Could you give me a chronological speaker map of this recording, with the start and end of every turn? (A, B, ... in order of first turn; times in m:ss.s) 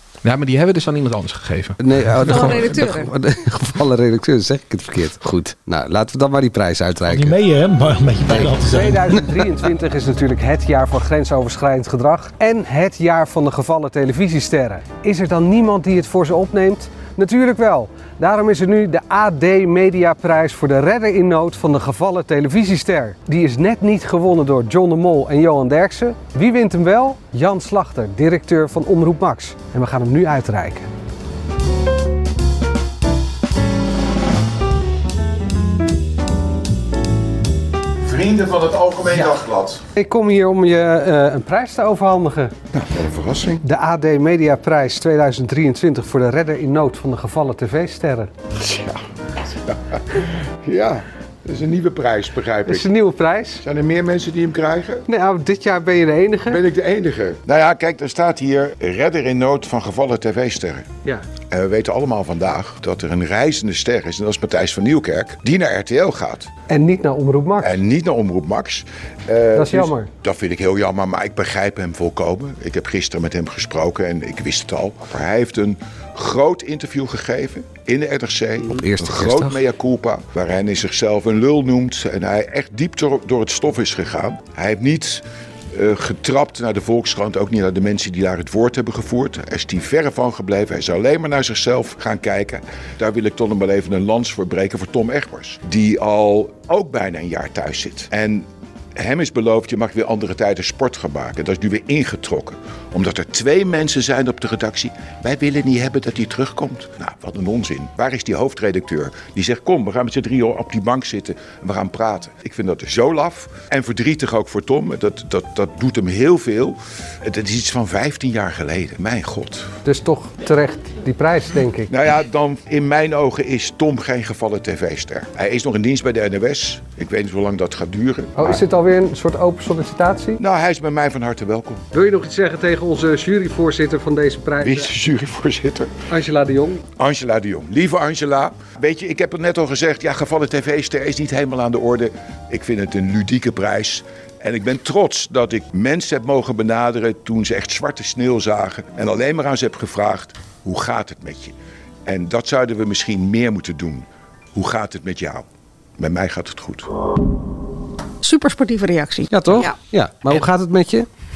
0:00.2-0:02.7 A
0:01.8-0:07.3 B
0:02.3-0:03.1 C
0:07.1-0:09.4 D
0:08.3-0:30.9 B
0:38.1-0:39.5 E
0:40.0-0:42.5 B
0:42.7-0:43.6 E
0:43.6-0:48.3 B
0:48.7-0:48.9 E
0:50.6-0:52.9 E
0:52.6-0:53.6 B
0:53.6-0:55.0 E
0:55.1-0:56.6 B
0:56.5-1:00.9 E
1:01.5-1:06.5 E
1:06.7-1:07.8 B
1:07.6-1:59.7 E
1:09.5-1:10.1 B
1:18.6-1:19.6 B
1:59.8-2:01.9 B
2:01.9-2:08.6 E
2:08.4-2:10.4 B
2:10.4-2:11.8 E
2:11.9-2:14.9 B
2:14.6-2:15.9 E
2:16.1-2:16.8 B
2:17.0-2:31.5 E
2:32.0-2:35.4 E
2:36.0-2:36.9 E
2:38.2-2:39.8 C
2:39.3-2:41.1 B